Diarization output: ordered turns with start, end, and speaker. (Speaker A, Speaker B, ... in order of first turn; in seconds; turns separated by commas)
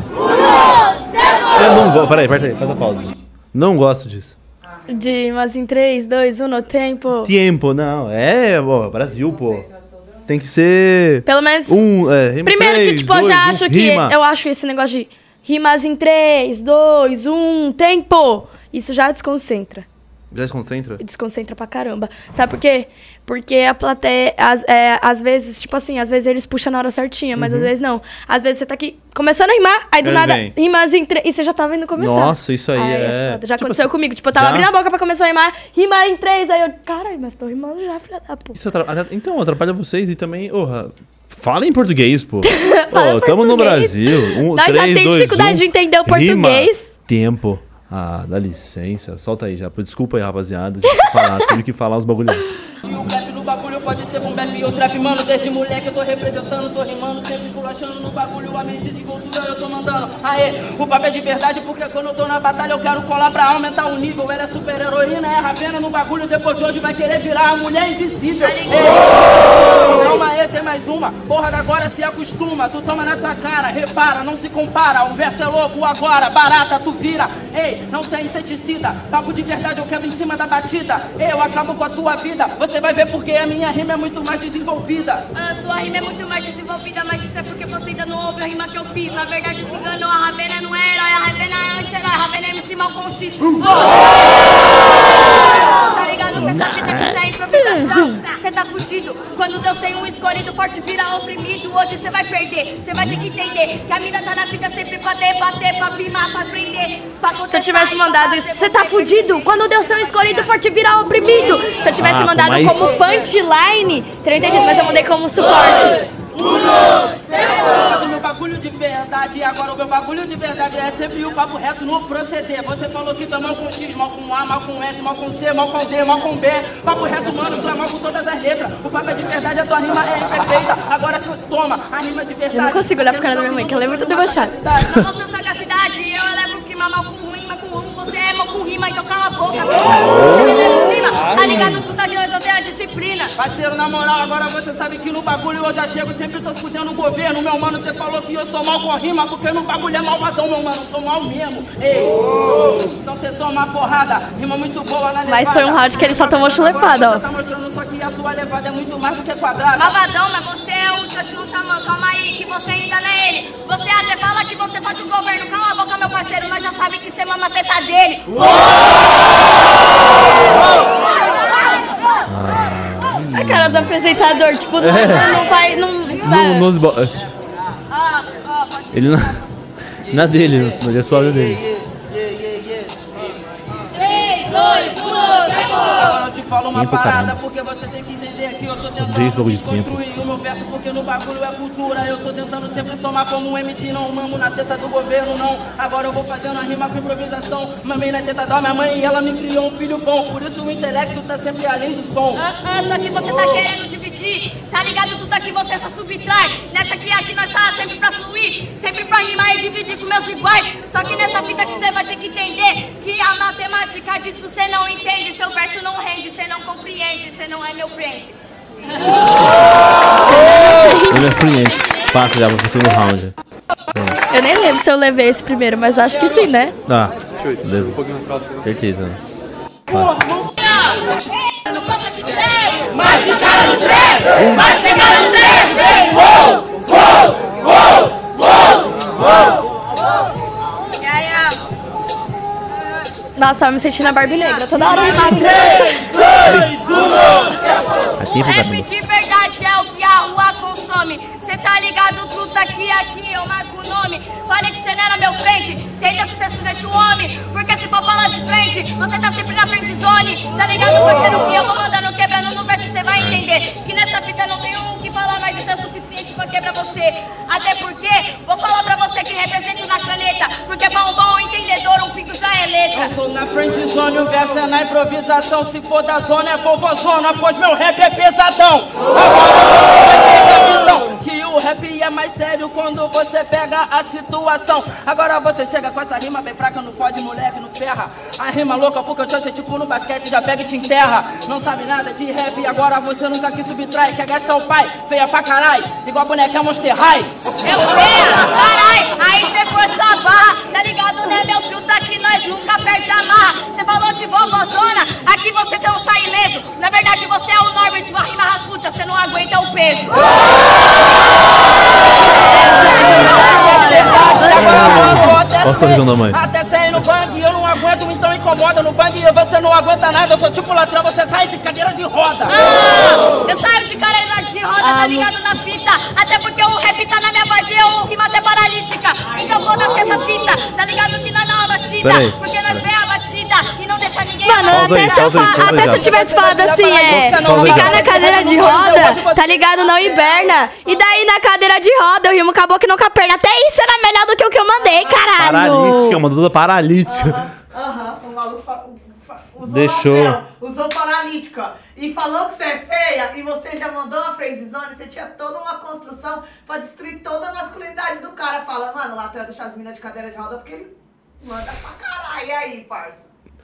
Speaker A: 1.5-4.3, Speaker B: 4.7-4.9, Speaker C: 4.9-7.3, Speaker A: 7.2-9.6, Speaker B: 9.0-10.3, Speaker A: 10.3-14.1, Speaker C: 11.2-11.8, Speaker C: 12.4-19.9, Speaker A: 20.3-21.0, Speaker C: 21.0-38.5, Speaker A: 27.4-27.7, Speaker A: 30.0-30.5, Speaker A: 31.9-34.7, Speaker A: 38.5-52.4, Speaker C: 42.5-46.9, Speaker C: 51.0-51.5, Speaker D: 52.8-85.2, Speaker E: 68.4-70.2, Speaker E: 85.3-110.5, Speaker A: 96.3-97.2, Speaker C: 97.5-98.2, Speaker A: 102.9-103.2, Speaker C: 107.5-116.0, Speaker A: 112.0-112.9, Speaker D: 117.3-135.0, Speaker C: 132.5-134.5, Speaker E: 134.8-143.3, Speaker A: 139.9-140.5, Speaker A: 141.3-141.8, Speaker D: 143.4-160.0, Speaker C: 155.2-157.2, Speaker E: 159.8-168.8, Speaker A: 172.3-173.9, Speaker C: 173.3-176.7, Speaker A: 174.8-175.4, Speaker A: 176.2-177.2, Speaker A: 178.9-179.4, Speaker A: 180.1-181.6, Speaker D: 182.4-182.9, Speaker D: 184.3-202.4, Speaker A: 186.7-187.4, Speaker A: 189.0-190.0, Speaker E: 202.3-218.4, Speaker C: 220.7-221.2, Speaker A: 221.1-223.3, Speaker A: 223.9-224.2, Speaker C: 224.3-226.7, Speaker A: 226.9-228.0, Speaker A: 228.6-229.2, Speaker A: 229.9-230.2, Speaker E: 230.6-231.0, Speaker E: 231.6-234.1, Speaker A: 234.3-234.8, Speaker E: 235.0-236.3, Speaker E: 241.0-241.6, Speaker C: 243.3-246.0, Speaker A: 246.4-246.8, Speaker A: 248.2-248.9, Speaker E: 248.3-273.1, Speaker A: 263.2-263.4, Speaker D: 272.9-297.5, Speaker E: 297.6-310.9, Speaker E: 312.3-315.2, Speaker C: 312.8-314.4, Speaker D: 313.2-322.6, Speaker A: 314.6-316.4, Speaker E: 322.5-335.8, Speaker C: 324.8-325.3, Speaker A: 332.0-332.8, Speaker C: 334.4-346.2, Speaker A: 334.7-336.1, Speaker D: 335.6-339.9, Speaker A: 337.0-338.2, Speaker B: 344.8-345.3, Speaker A: 345.4-347.4, Speaker B: 347.0-363.2, Speaker A: 349.6-350.4